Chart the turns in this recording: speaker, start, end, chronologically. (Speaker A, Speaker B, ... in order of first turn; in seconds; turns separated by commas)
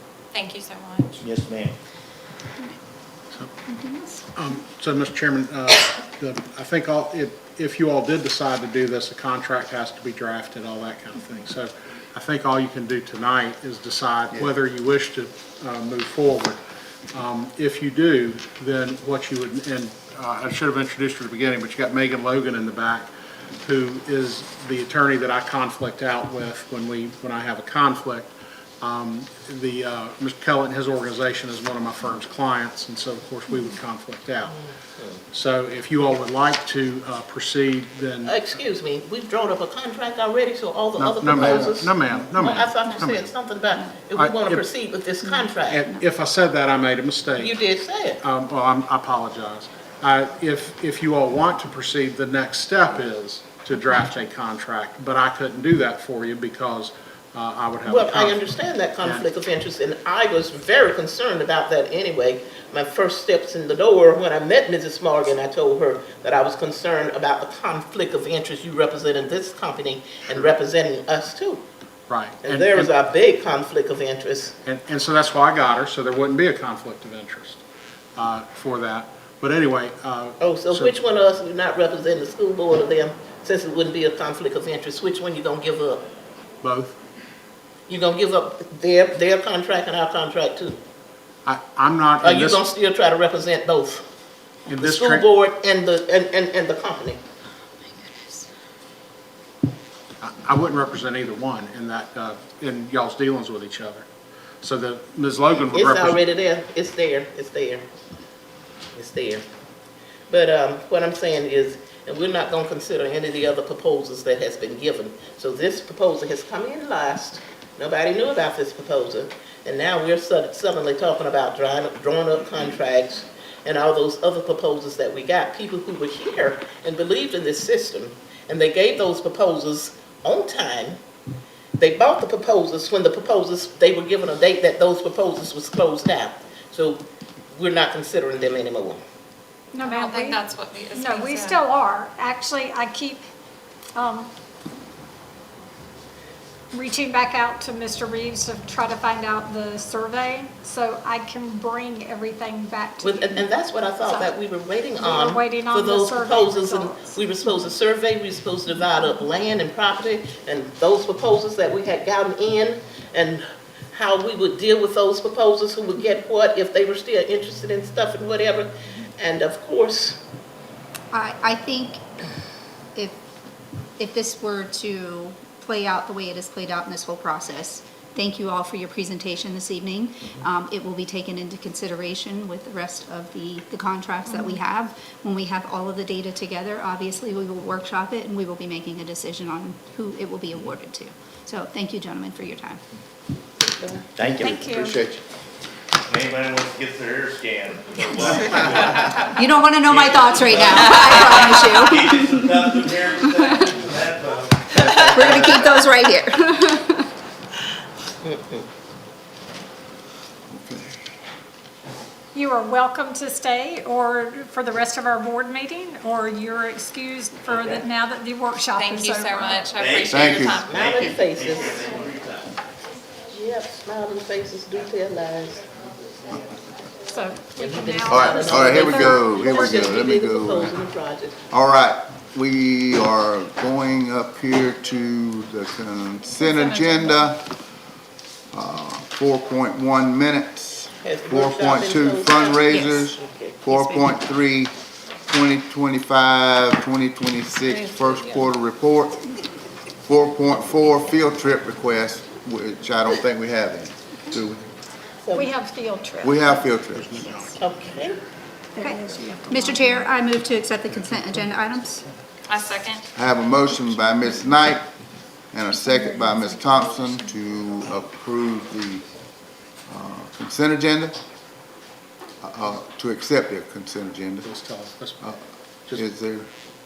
Speaker A: 0.3-1.2, Speaker B: 1.2-1.8, Speaker C: 3.7-4.2, Speaker D: 4.3-16.6, Speaker D: 17.1-23.1, Speaker D: 23.6-34.6, Speaker D: 35.3-38.4, Speaker E: 38.2-45.8, Speaker D: 41.0-43.3, Speaker C: 43.8-44.1, Speaker D: 44.2-44.6, Speaker C: 45.2-46.0, Speaker D: 45.7-47.6, Speaker E: 47.4-48.2, Speaker D: 48.2-58.4, Speaker E: 57.9-71.7, Speaker D: 72.1-72.9, Speaker E: 72.4-74.6, Speaker D: 74.7-77.6, Speaker D: 78.2-80.9, Speaker E: 80.4-86.0, Speaker D: 86.6-87.0, Speaker E: 87.9-90.8, Speaker D: 91.5-92.6, Speaker E: 92.2-94.0, Speaker D: 94.7-95.2, Speaker E: 94.8-97.2, Speaker C: 97.8-98.5, Speaker D: 100.2-104.1, Speaker D: 104.6-106.2, Speaker E: 105.6-107.9, Speaker E: 109.0-109.4, Speaker E: 110.3-131.0, Speaker E: 131.8-139.0, Speaker F: 139.7-143.2, Speaker A: 139.8-141.7, Speaker F: 143.9-144.3, Speaker F: 146.7-154.4, Speaker E: 153.0-170.2, Speaker F: 154.9-157.3, Speaker C: 171.1-172.0, Speaker C: 172.9-173.2, Speaker C: 174.0-192.8, Speaker F: 184.3-184.6, Speaker B: 194.2-194.7, Speaker F: 194.4-195.0, Speaker G: 194.7-195.2, Speaker B: 196.1-205.7, Speaker C: 199.3-202.5, Speaker C: 204.7-207.1, Speaker E: 208.2-208.6, Speaker G: 210.5-210.9, Speaker F: 212.3-219.8, Speaker A: 218.7-220.7, Speaker B: 219.7-222.6, Speaker G: 220.1-220.9, Speaker E: 220.7-221.8, Speaker E: 223.3-225.7, Speaker F: 227.1-229.9, Speaker E: 227.6-231.4, Speaker G: 228.1-230.8, Speaker G: 231.5-237.5, Speaker G: 238.5-244.7, Speaker E: 241.0-243.6, Speaker C: 242.7-243.0, Speaker C: 243.7-244.1, Speaker G: 245.3-249.2, Speaker G: 250.1-254.7, Speaker E: 255.2-255.5, Speaker F: 255.3-256.7, Speaker G: 256.2-257.3, Speaker D: 256.9-257.6, Speaker E: 257.6-258.2, Speaker F: 258.8-260.1, Speaker C: 258.8-262.0, Speaker A: 262.5-263.0, Speaker G: 263.1-264.9, Speaker G: 265.5-269.0, Speaker F: 266.2-266.4, Speaker G: 269.9-271.1, Speaker G: 272.4-274.5, Speaker D: 274.4-275.4, Speaker G: 275.9-276.5